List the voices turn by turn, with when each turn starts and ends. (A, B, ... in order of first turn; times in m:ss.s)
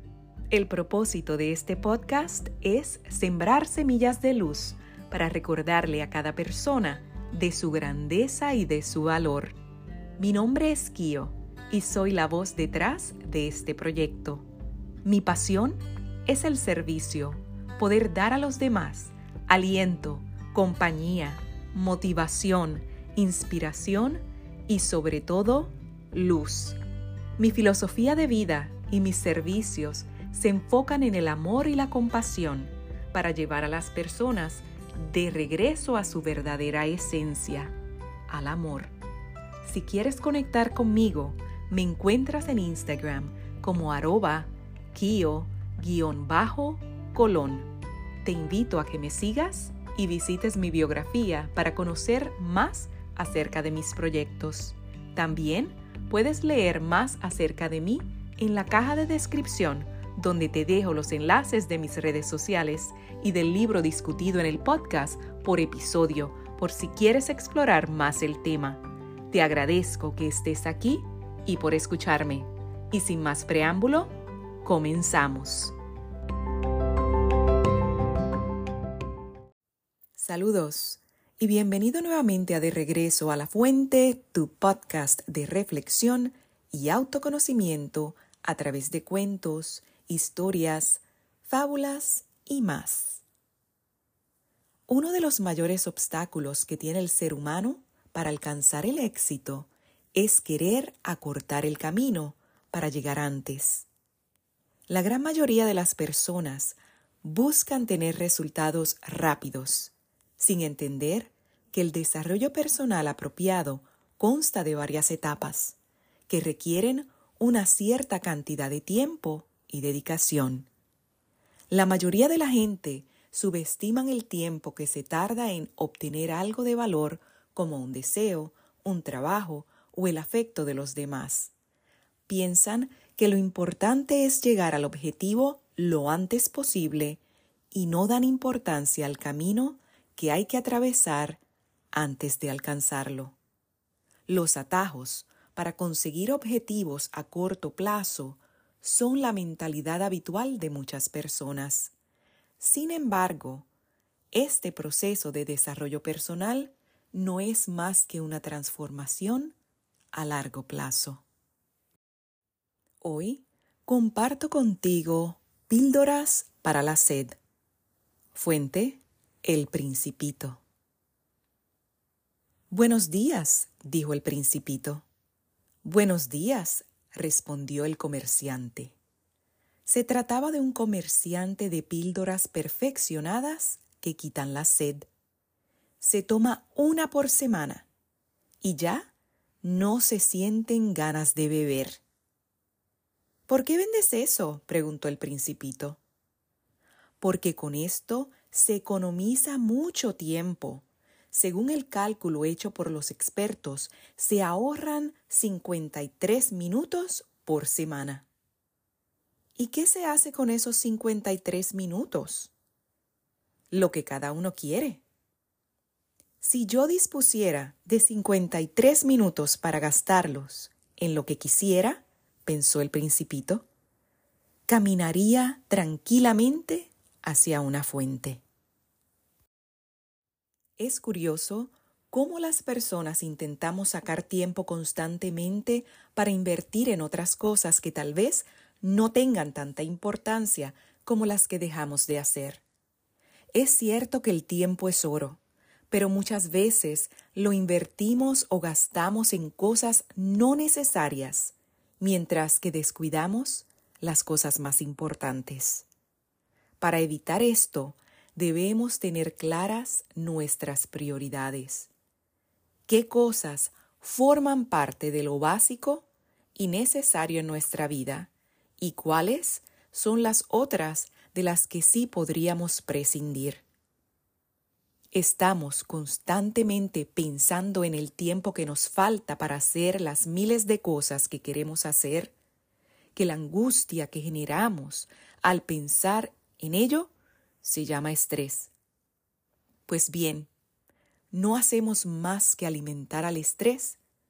0:00.5-0:09.6 A
0:10.2-0:14.5 A
0:15.0-0:26.8 A
0:27.4-0:37.7 A
0:38.3-0:38.9 A
0:39.6-0:47.7 A
0:48.2-1:15.8 A
1:20.2-1:33.2 A
1:34.9-1:43.9 A
1:44.9-1:55.8 A
1:56.3-2:00.7 A
2:01.7-2:11.5 A
2:12.3-2:17.2 A
2:17.7-2:21.4 A
2:21.9-2:23.4 A
2:24.3-2:31.9 A
2:32.6-2:33.7 A
2:34.3-2:39.5 A
2:40.1-2:41.2 A
2:43.0-2:47.4 A
2:48.3-2:50.6 A
2:52.7-2:55.0 A
2:55.8-2:59.0 A
2:59.8-3:05.1 A
3:06.0-3:07.9 A
3:08.6-3:09.1 A
3:09.6-3:12.0 A
3:13.5-3:16.0 A
3:17.2-3:28.3 A
3:29.6-3:32.5 A
3:33.7-3:35.0 A
3:36.4-3:43.7 A
3:44.7-3:48.4 A
3:50.8-4:02.6 A
4:03.5-4:15.9 A
4:16.8-4:21.9 A
4:22.9-4:33.6 A
4:35.1-4:42.3 A
4:43.2-4:47.1 A
4:47.6-4:48.7 A
4:49.9-4:50.5 A
4:51.3-4:54.0 A